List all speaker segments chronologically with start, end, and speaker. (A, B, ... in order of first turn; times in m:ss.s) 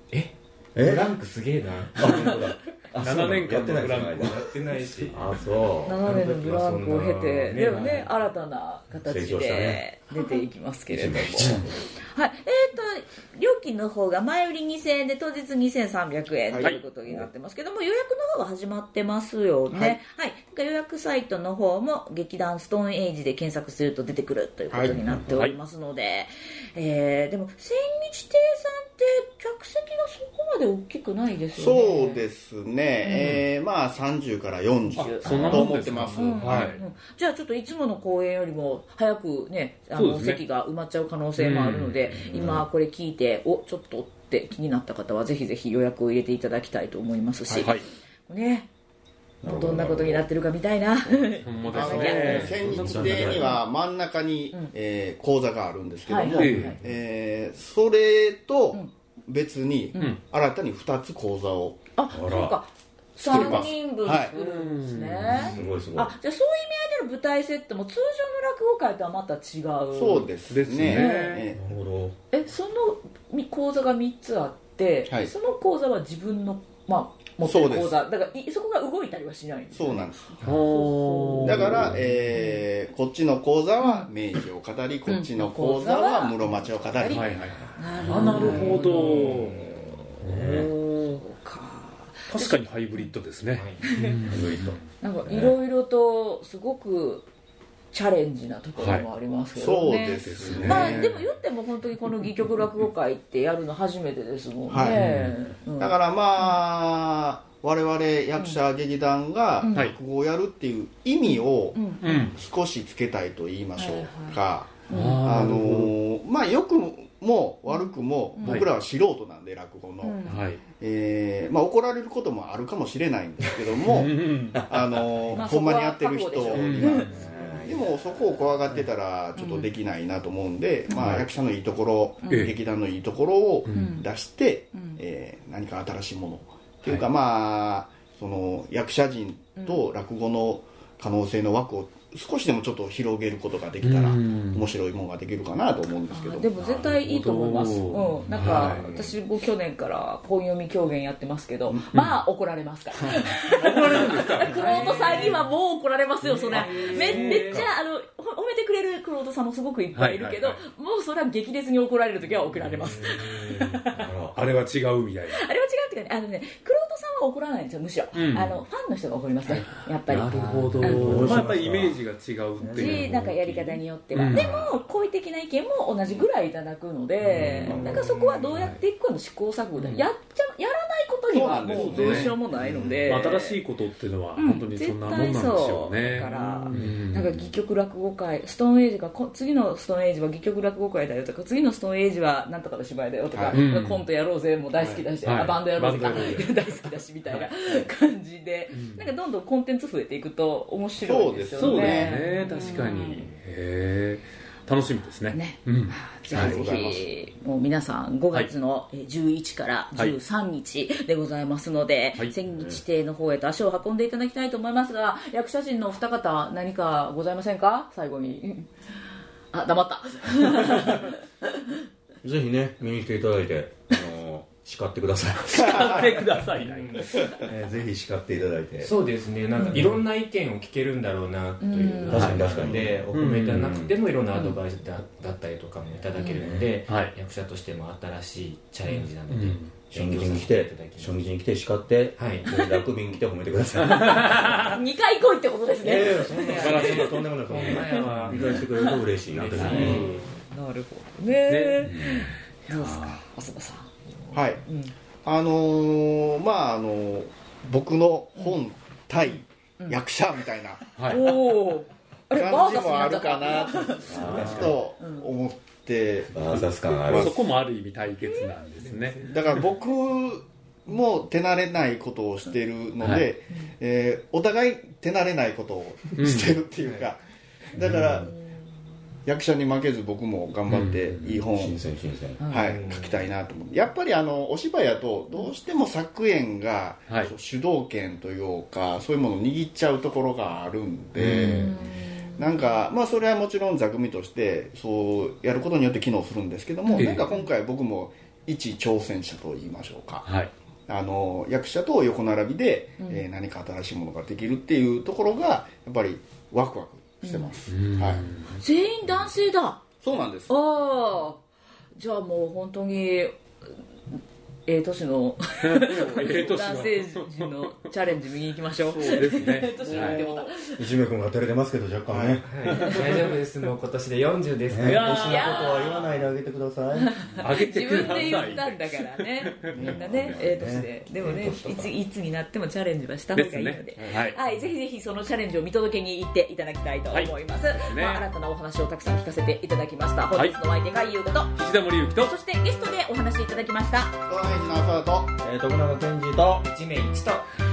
0:00.1-0:02.5 A
0:00.7-0:01.2 B
0:02.0-0:06.1 B
0:03.0-0:05.1 C
0:04.1-0:05.2 A
0:05.8-0:32.2 D
0:06.0-0:08.1 A
0:07.7-0:08.0 B
0:09.0-0:09.8 B
0:10.9-0:11.9 B
0:16.5-0:16.8 E
0:19.7-0:20.0 E
0:24.7-0:25.0 E
0:24.8-0:25.3 B
0:25.3-0:25.6 C
0:31.5-0:36.7 E
0:33.0-0:33.4 D
0:34.9-0:48.7 D
0:35.0-0:36.8 C
0:39.9-0:40.4 C
0:41.4-0:42.1 C
0:42.1-0:42.6 B
0:49.4-0:50.3 B
0:49.4-0:53.6 D
0:51.1-0:53.5 B
0:51.4-0:53.4 C
0:51.7-1:01.8 E
0:56.1-0:56.8 D
0:56.4-0:56.8 C
1:00.0-1:00.2 C
1:02.0-1:10.3 D
1:02.1-1:02.6 B
1:03.2-1:04.3 E
1:03.3-1:03.7 C
1:04.3-1:05.5 C
1:05.3-1:06.1 B
1:05.3-1:05.8 A
1:09.9-1:11.6 E
1:10.5-1:11.4 C
1:10.8-1:11.4 D
1:11.5-1:12.2 B
1:12.3-1:22.6 D
1:17.4-1:18.0 E
1:19.7-1:20.4 E
1:20.4-1:22.0 C
1:21.4-1:27.6 E
1:23.8-1:24.1 D
1:25.1-1:33.1 D
1:27.1-1:29.6 C
1:27.7-1:30.1 A
1:30.2-1:31.2 C
1:30.2-1:30.7 B
1:32.3-1:34.8 C
1:33.5-1:33.9 A
1:33.8-1:34.3 D
1:34.3-1:35.5 B
1:35.0-1:37.3 D
1:37.9-1:46.6 D
1:38.8-1:39.1 C
1:39.6-1:41.2 E
1:40.2-1:41.1 C
1:44.7-1:45.0 E
1:44.9-1:45.4 C
1:45.8-2:26.5 E
1:49.6-1:49.9 D
1:51.3-1:52.3 D
1:52.0-1:52.4 C
1:53.8-1:55.2 D
1:54.9-1:55.9 C
1:57.7-1:58.6 D
1:58.4-1:58.7 C
2:00.0-2:00.4 D
2:00.2-2:00.6 C
2:03.7-2:05.0 C
2:04.5-2:05.2 B
2:05.3-2:07.1 D
2:06.5-2:07.0 C
2:06.7-2:08.0 B
2:07.3-2:07.7 A
2:09.3-2:09.7 D
2:10.9-2:11.1 D
2:11.0-2:11.2 B
2:12.2-2:12.5 D
2:12.3-2:12.5 C
2:13.6-2:14.0 C
2:13.7-2:14.0 D
2:14.7-2:15.0 D
2:19.6-2:19.8 D
2:23.8-2:24.7 C
2:26.1-2:43.9 D
2:26.6-2:28.8 C
2:28.4-2:29.2 A
2:31.9-2:32.2 C
2:33.4-2:35.4 C
2:34.5-2:35.4 A
2:36.2-2:37.7 C
2:36.5-2:37.6 A
2:39.9-2:40.6 C
2:43.9-2:44.4 B
2:44.3-2:45.4 C
2:45.3-2:51.5 D
2:48.1-2:48.6 C
2:49.5-2:53.2 C
2:50.1-2:51.6 A
2:50.3-2:52.0 B
2:52.6-2:53.8 B
2:52.6-3:03.6 D
2:54.1-2:54.8 C
2:57.3-2:58.8 C
2:57.3-2:58.2 B
2:59.8-3:00.1 C
3:01.3-3:03.0 E
3:01.6-3:02.4 C
3:02.6-3:02.9 B
3:03.0-3:07.4 C
3:04.4-3:23.2 D
3:13.3-3:13.6 E
3:13.5-3:14.0 C
3:14.8-3:16.6 C
3:18.7-3:19.1 C
3:21.0-3:22.2 E
3:21.6-3:26.6 C
3:25.3-3:38.7 D
3:26.3-3:27.1 E
3:32.5-3:32.8 B
3:39.5-3:41.2 D
3:42.2-3:46.2 B
3:45.5-3:47.3 C
3:46.6-3:47.3 A
3:47.3-3:48.9 B
3:48.8-4:01.2 A
3:49.6-3:49.8 D
3:51.6-3:52.3 D
3:52.0-3:53.9 B
3:52.1-3:52.5 C
3:53.1-3:53.7 C
3:56.2-3:56.4 D
3:56.4-3:56.7 B
3:56.9-3:57.1 C
3:58.8-3:59.7 C
3:59.9-4:04.7 B
4:02.2-4:02.6 A
4:02.5-4:02.8 D
4:03.8-4:04.8 C
4:04.6-4:09.0 D
4:05.8-4:10.1 B
4:06.5-4:08.5 C
4:07.7-4:08.3 A
4:09.3-4:10.2 C
4:09.5-4:14.9 D
4:09.6-4:10.1 A
4:11.5-4:12.0 C
4:11.8-4:12.3 B
4:12.7-4:13.2 C
4:14.3-4:14.6 E
4:15.2-4:20.8 E
4:20.9-4:21.3 C
4:21.0-4:24.2 D
4:22.3-4:27.4 E
4:24.1-4:24.8 B
4:25.0-4:25.3 D
4:26.3-4:27.3 B
4:27.1-4:29.3 C
4:28.3-4:28.6 D
4:29.2-4:37.2 E
4:33.0-4:33.3 C
4:36.2-4:36.6 C
4:37.7-4:38.3 E
4:39.2-4:41.8 E
4:40.7-4:41.4 C
4:41.3-4:42.4 B
4:42.4-4:42.7 D
4:42.5-4:51.8 E
4:42.6-4:43.2 A
4:51.2-4:51.6 B
4:51.3-4:52.6 D
4:52.4-5:00.3 E
4:56.8-4:57.4 D
4:57.0-4:57.3 C
5:00.2-5:00.5 C
5:00.9-5:08.2 E
5:03.0-5:03.2 D
5:07.2-5:07.5 D
5:07.7-5:08.6 C
5:08.5-5:09.8 D
5:10.0-5:10.6 E
5:10.5-5:11.4 D
5:12.0-5:13.4 D
5:14.6-5:20.8 D
5:15.6-5:17.7 C
5:18.8-5:20.5 E
5:19.1-5:20.2 C
5:20.8-5:22.5 B
5:22.1-5:22.5 E
5:22.4-5:26.1 A
5:22.7-5:23.4 C
5:24.7-5:27.3 B
5:24.8-5:25.8 C
5:25.0-5:26.0 D
5:26.9-5:41.6 D
5:27.4-5:30.3 C
5:29.7-5:30.4 E
5:30.0-5:31.9 B
5:33.3-5:34.4 C
5:37.1-5:38.2 C
5:40.3-5:40.6 C
5:41.5-5:42.3 C
5:42.2-5:44.2 D
5:44.3-5:45.3 E
5:45.4-5:46.7 B
5:46.6-5:47.5 A